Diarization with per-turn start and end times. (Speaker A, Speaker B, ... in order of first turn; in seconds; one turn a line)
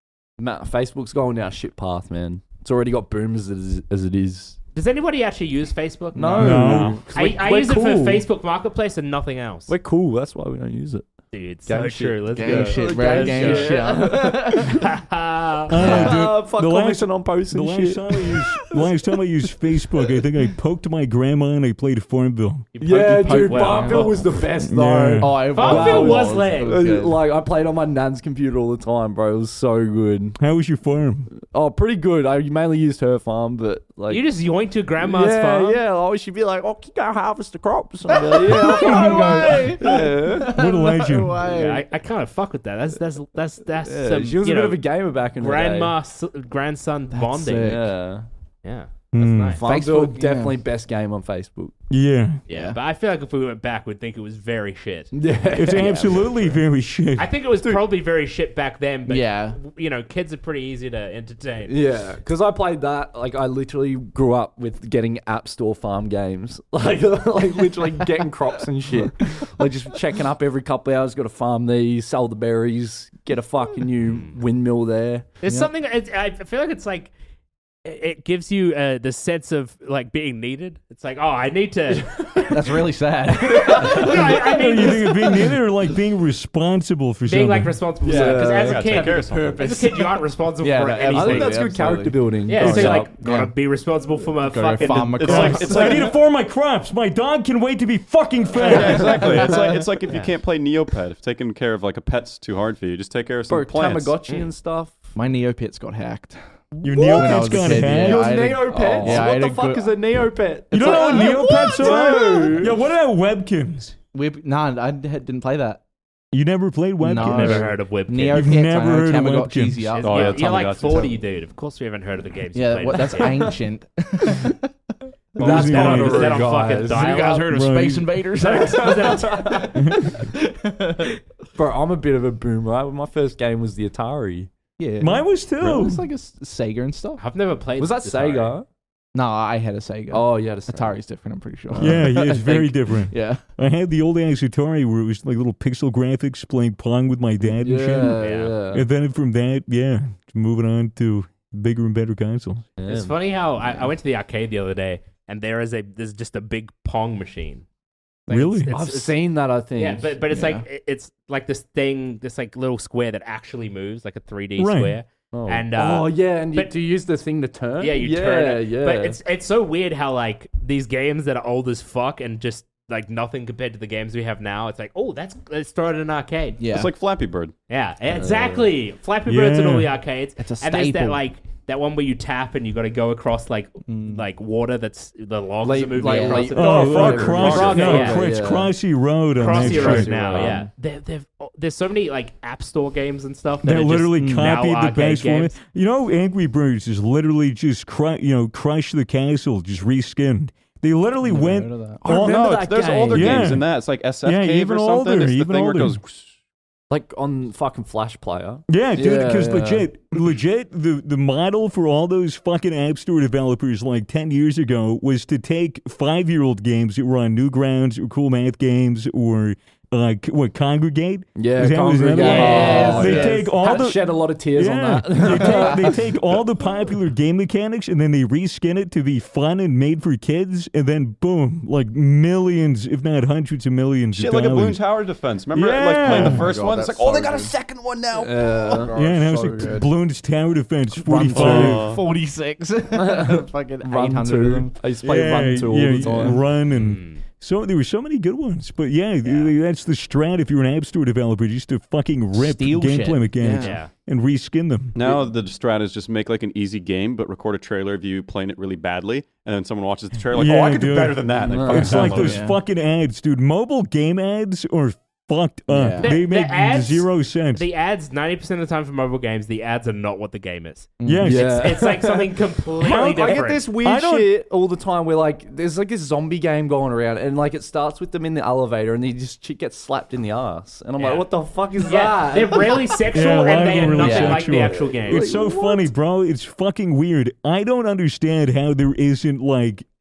Speaker A: 0.4-4.6
Speaker B: 4.7-9.7
Speaker A: 6.1-8.3
Speaker C: 6.4-6.9
Speaker D: 6.5-7.0
Speaker A: 9.7-11.1
Speaker B: 11.3-16.2
Speaker A: 11.6-14.8
Speaker E: 12.3-14.7
Speaker C: 15.7-22.7
Speaker A: 15.8-18.3
Speaker B: 22.7-24.3
Speaker A: 22.8-30.4
Speaker E: 22.8-24.2
Speaker C: 24.5-25.5
Speaker E: 25.2-27.2
Speaker B: 25.5-26.8
Speaker C: 30.4-31.3
Speaker A: 31.4-34.3
Speaker B: 34.1-35.8
Speaker A: 35.0-40.5
Speaker E: 38.1-41.8
Speaker C: 38.5-41.4
Speaker B: 41.4-47.8
Speaker A: 43.8-45.9
Speaker E: 47.1-47.9
Speaker A: 47.6-48.3
Speaker B: 48.6-49.6
Speaker C: 49.1-49.6
Speaker A: 49.6-51.7
Speaker E: 49.6-50.6
Speaker C: 51.9-52.4
Speaker B: 52.5-56.1
Speaker E: 52.5-52.8
Speaker A: 55.1-56.2
Speaker C: 55.5-57.3
Speaker E: 55.8-56.4
Speaker B: 57.1-61.8
Speaker E: 59.1-59.6
Speaker A: 61.7-75.3
Speaker B: 74.1-74.4
Speaker B: 75.4-77.1
Speaker B: 77.8-82.7
Speaker E: 82.4-85.1
Speaker B: 83.5-85.4
Speaker C: 84.1-87.8
Speaker B: 87.2-91.6
Speaker A: 88.0-89.0
Speaker E: 88.0-93.5
Speaker D: 88.2-89.7
Speaker A: 91.1-93.1
Speaker B: 92.5-95.7
Speaker E: 94.4-96.0
Speaker D: 94.8-96.2
Speaker C: 95.2-99.2
Speaker D: 98.6-104.2
Speaker E: 98.7-99.8
Speaker A: 103.5-105.1
Speaker E: 105.1-110.0
Speaker C: 106.8-109.2
Speaker A: 106.9-112.8
Speaker C: 110.7-113.9
Speaker E: 110.7-112.7
Speaker E: 114.1-115.8
Speaker C: 116.3-119.9
Speaker E: 117.0-121.0
Speaker B: 117.2-118.7
Speaker B: 119.9-123.5
Speaker D: 120.0-121.2
Speaker E: 122.5-124.6
Speaker A: 123.0-123.5
Speaker C: 125.4-126.5
Speaker B: 125.4-127.6
Speaker A: 125.4-127.3
Speaker E: 126.8-131.1
Speaker C: 127.5-128.2
Speaker B: 128.4-129.8
Speaker A: 128.4-129.7
Speaker A: 131.6-134.5
Speaker E: 134.8-137.2
Speaker C: 135.0-136.0
Speaker B: 137.2-138.6
Speaker A: 137.8-138.7
Speaker E: 139.1-143.4
Speaker A: 140.1-141.0
Speaker A: 141.7-142.6
Speaker C: 141.8-152.7
Speaker A: 147.6-148.9
Speaker B: 148.2-148.6
Speaker A: 152.8-153.2
Speaker B: 152.9-157.6
Speaker B: 158.3-166.7
Speaker C: 158.3-158.7
Speaker A: 158.7-160.1
Speaker E: 160.3-160.6
Speaker C: 164.6-165.0
Speaker A: 165.3-169.2
Speaker B: 167.8-176.6
Speaker E: 176.6-176.9
Speaker D: 176.7-177.5
Speaker B: 177.7-186.7
Speaker A: 178.2-178.7
Speaker C: 179.3-179.9
Speaker E: 180.4-181.2
Speaker E: 183.9-184.2
Speaker A: 185.6-188.7
Speaker E: 185.9-187.3
Speaker C: 186.6-190.5
Speaker D: 186.7-188.2
Speaker B: 187.4-188.2
Speaker B: 189.4-195.6
Speaker A: 189.4-190.7
Speaker C: 193.6-206.0
Speaker E: 194.2-194.6
Speaker E: 201.2-202.1
Speaker A: 202.0-203.6
Speaker D: 202.1-206.3
Speaker A: 206.9-209.9
Speaker C: 208.7-234.9
Speaker A: 221.4-226.0
Speaker E: 222.1-223.5
Speaker E: 225.3-225.9
Speaker D: 234.1-239.0
Speaker C: 235.5-236.5
Speaker E: 236.0-237.5
Speaker A: 238.1-239.9
Speaker C: 238.9-241.9
Speaker E: 238.9-239.9
Speaker E: 240.9-244.8
Speaker D: 241.3-242.1
Speaker A: 242.9-246.4
Speaker C: 245.0-255.1
Speaker E: 246.0-246.4
Speaker B: 246.7-247.2
Speaker B: 249.2-249.5
Speaker E: 252.3-253.8
Speaker B: 253.6-253.9
Speaker D: 254.9-262.4
Speaker C: 260.3-267.6
Speaker A: 261.3-262.3
Speaker E: 262.1-262.6
Speaker E: 265.7-266.1
Speaker B: 266.0-273.6
Speaker E: 271.0-271.3
Speaker C: 271.0-271.6
Speaker A: 271.2-283.0
Speaker C: 272.8-274.3
Speaker B: 281.0-285.3
Speaker C: 283.1-289.8
Speaker E: 283.9-284.5
Speaker A: 284.1-285.8